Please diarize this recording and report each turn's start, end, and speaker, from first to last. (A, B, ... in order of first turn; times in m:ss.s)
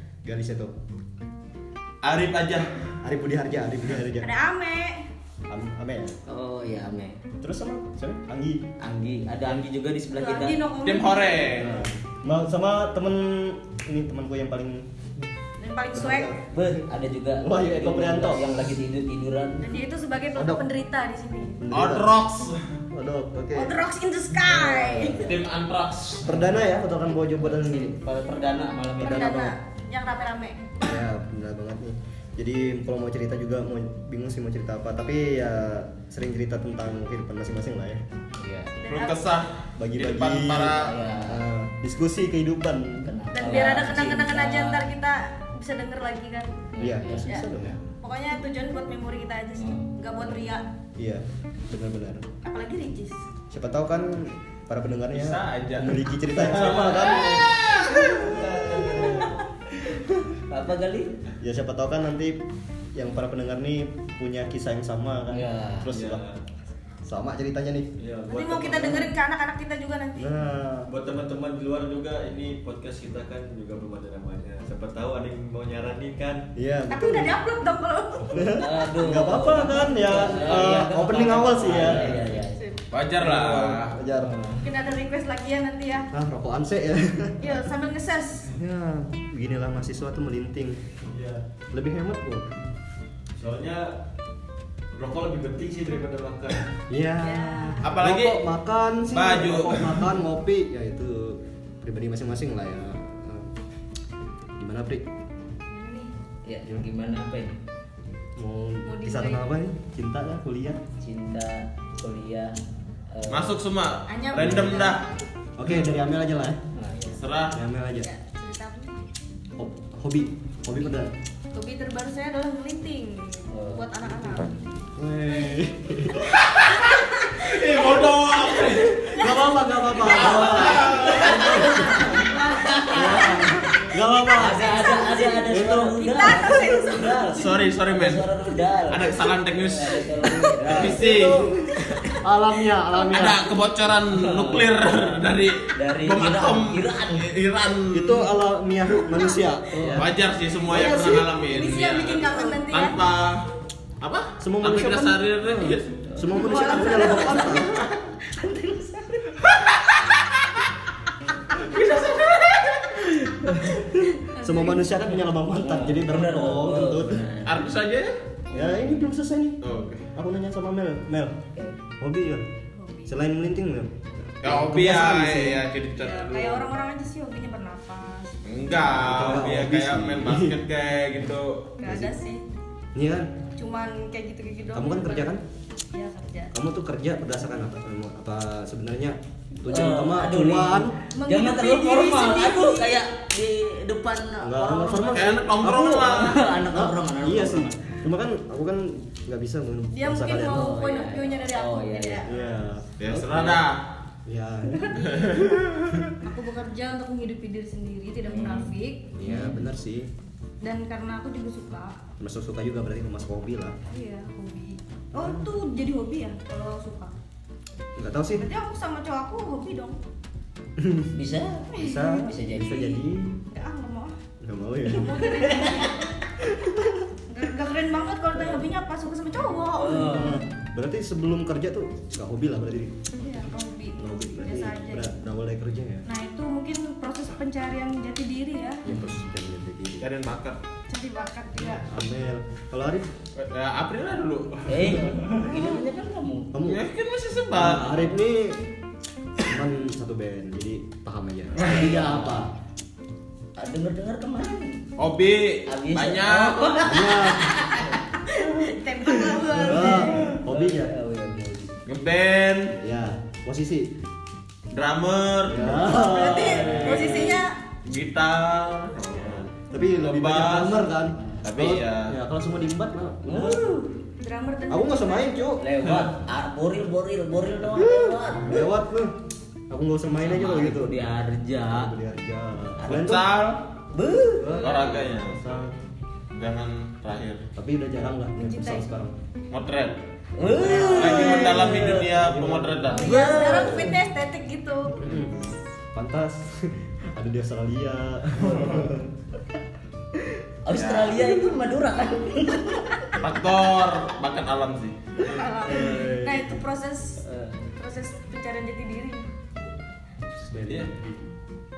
0:00.2-0:00.7 A
0:02.0-0:02.7 B
0:03.0-0:04.3 A
0:04.2-0:05.0 C
0:05.5-0:06.2 A
0:06.2-0:07.2 D
0:07.4-0:08.6 A
0:08.8-0:10.6 D
0:10.1-0:11.7 C
0:10.8-0:11.8 B
0:11.6-0:15.1 A
0:15.6-0:16.3 C
0:15.9-0:16.7 A
0:16.5-0:19.7 D
0:17.4-0:18.5 A
0:19.6-0:21.6 C
0:20.3-0:20.6 A
0:21.6-0:22.2 A
0:21.7-0:22.6 B
0:22.9-0:23.8 A
0:23.5-0:25.3 C
0:24.4-0:25.3 D
0:25.2-0:26.4 B
0:26.2-0:28.0 A
0:27.4-0:29.5 D
0:29.0-0:29.5 A
0:29.0-0:30.6 C
0:30.8-0:38.0 A
0:38.4-0:38.7 D
0:38.8-0:39.3 C
0:38.9-0:41.0 B
0:39.8-0:43.1 A
0:40.7-0:41.4 D
0:43.0-0:44.9 D
0:43.3-0:46.6 C
0:46.7-0:47.4 D
0:46.8-0:47.8 A
0:48.0-0:50.6 C
0:49.6-0:49.9 D
0:51.0-0:52.2 A
0:52.4-0:53.2 C
0:53.5-0:59.3 A
0:55.1-0:57.5 B
0:57.2-0:58.2 C
0:58.1-1:01.1 D
0:58.9-0:59.4 C
1:00.0-1:00.3 A
1:01.4-1:02.4 A
1:02.9-1:06.2 A
1:05.3-1:05.9 D
1:05.9-1:06.4 E
1:07.0-1:07.9 A
1:08.0-1:09.1 E
1:08.3-1:10.3 C
1:10.2-1:10.9 A
1:10.8-1:16.5 E
1:16.5-1:17.3 A
1:16.9-1:18.7 C
1:18.3-1:22.4 A
1:18.5-1:22.6 D
1:22.3-1:22.8 C
1:22.9-1:24.0 B
1:23.2-1:24.4 A
1:24.2-1:24.7 D
1:24.6-1:26.1 C
1:26.1-1:27.5 A
1:27.4-1:28.5 C
1:28.5-1:30.8 A
1:31.0-1:31.4 E
1:31.7-1:32.5 A
1:33.4-1:33.9 E
1:34.9-1:36.7 E
1:36.9-1:43.5 A
1:37.2-1:37.9 C
1:37.8-1:38.5 B
1:39.1-1:40.0 B
1:44.6-1:45.0 A
1:45.7-1:46.1 C
1:46.4-1:47.6 D
1:48.4-1:50.8 A
1:48.8-1:49.4 C
1:51.0-1:52.6 D
1:53.1-1:53.5 D
1:53.3-1:55.1 B
1:54.1-1:55.2 C
1:54.4-1:54.6 A
1:55.6-1:56.6 A
1:56.7-1:57.2 D
1:57.2-1:57.6 B
1:57.5-1:58.1 A
1:58.0-1:59.0 C
1:59.6-2:01.1 A
2:01.5-2:04.6 C
2:03.5-2:03.9 D
2:04.9-2:06.4 A
2:06.3-2:09.3 B
2:06.9-2:07.5 C
2:08.7-2:12.2 A
2:09.2-2:09.4 C
2:10.0-2:11.6 B
2:10.7-2:13.6 D
2:11.0-2:11.3 C
2:12.0-2:13.6 C
2:12.9-2:14.9 A
2:14.3-2:21.0 D
2:14.5-2:17.4 C
2:15.5-2:16.6 A
2:17.3-2:18.2 B
2:18.9-2:20.0 B
2:20.7-2:23.4 A
2:20.7-2:21.5 B
2:22.9-2:28.3 B
2:24.1-2:25.1 D
2:25.7-2:27.3 D
2:27.9-2:30.1 A
2:29.1-2:29.4 C
2:29.9-2:33.4 B
2:30.7-2:31.3 A
2:31.4-2:33.0 C
2:34.0-2:36.0 B
2:34.4-2:37.8 A
2:36.3-2:39.3 C
2:36.3-2:37.4 D
2:38.4-2:38.9 D
2:39.4-2:40.6 B
2:41.5-2:43.6 B
2:43.5-2:47.2 A
2:44.2-2:44.9 C
2:45.6-2:47.6 D
2:47.4-2:48.1 B
2:48.5-2:49.6 A
2:48.5-2:48.9 D
2:49.6-2:50.1 B
2:50.1-2:51.4 A
2:52.0-2:52.4 A
2:52.8-2:53.1 C
2:53.0-2:55.6 A
2:54.4-2:56.7 B
2:56.0-2:58.3 C
2:58.4-3:01.7 B
2:58.9-3:00.6 A
3:01.8-3:02.4 C
3:01.8-3:02.1 A
3:02.9-3:03.4 A
3:03.6-3:05.4 C
3:04.7-3:05.4 A
3:05.9-3:06.5 C
3:06.5-3:11.0 A
3:09.7-3:15.3 D
3:11.1-3:13.0 C
3:14.4-3:20.8 A
3:15.1-3:16.4 B
3:16.0-3:18.0 D
3:19.9-3:22.5 C
3:20.5-3:22.3 D
3:22.3-3:22.9 A
3:23.0-3:23.8 B
3:23.1-3:23.6 D
3:24.2-3:26.0 A
3:24.7-3:25.6 C
3:25.0-3:26.1 B
3:26.2-3:29.2 C
3:28.2-3:29.6 D
3:29.2-3:30.1 A
3:30.6-3:32.0 C
3:32.2-3:33.8 A
3:33.9-3:37.1 C
3:35.1-3:35.5 A
3:38.0-3:38.5 A
3:38.3-3:40.0 C
3:40.8-3:41.1 A
3:41.1-3:43.0 D
3:41.7-3:42.4 C
3:41.7-3:43.4 A
3:43.5-3:44.2 C
3:44.4-3:45.5 A
3:44.8-3:46.1 C
3:45.5-3:45.9 D
3:46.4-3:47.1 A
3:47.3-3:50.4 C
3:49.7-3:50.4 D
3:49.9-3:53.0 A
3:53.2-3:55.1 C
3:54.0-3:56.0 A
3:56.0-3:58.8 C
3:58.8-4:00.1 A
3:58.9-3:59.4 D
4:00.0-4:00.6 B
4:00.9-4:01.9 C
4:01.6-4:03.1 A
4:03.4-4:05.6 B
4:04.7-4:06.5 D
4:06.5-4:06.8 A
4:06.6-4:08.0 B
4:07.5-4:08.6 A
4:09.4-4:12.5 A
4:11.6-4:12.5 D
4:13.6-4:14.8 D
4:15.0-4:16.9 B
4:15.7-4:18.3 D
4:16.8-4:20.3 C
4:16.8-4:17.6 A
4:19.1-4:21.8 D
4:19.6-4:20.9 A
4:21.8-4:22.8 B
4:22.8-4:23.9 A
4:24.7-4:25.8 B
4:25.4-4:27.3 A
4:25.7-4:27.6 C
4:26.6-4:27.3 D
4:26.6-4:29.5 B
4:29.3-4:33.7 A
4:30.0-4:30.9 B
4:31.4-4:32.2 B
4:33.2-4:33.9 D
4:34.2-4:35.4 C
4:34.7-4:35.6 A
4:35.6-4:38.6 D
4:37.7-4:39.1 A
4:39.7-4:41.0 A
4:40.2-4:41.9 D
4:41.7-4:43.2 A
4:42.8-4:43.6 B
4:43.9-4:44.6 D
4:44.4-4:45.8 A
4:44.5-4:45.4 B
4:46.3-4:47.4 B
4:47.6-4:49.1 A
4:48.3-4:48.9 C
4:49.5-4:50.0 B
4:50.4-4:52.0 D
4:50.4-4:51.2 A
4:50.4-4:51.6 C
4:50.7-4:53.2 B
4:52.1-4:53.0 A
4:52.9-4:54.0 D
4:53.0-4:55.1 C
4:55.0-4:59.1 A
4:55.0-4:55.3 B
4:58.4-4:58.9 B
5:00.6-5:03.0 D
5:00.7-5:01.4 B
5:03.2-5:05.0 B
5:05.2-5:06.6 A
5:05.2-5:07.2 C
5:07.2-5:07.6 D
5:07.8-5:09.3 C
5:10.4-5:11.2 A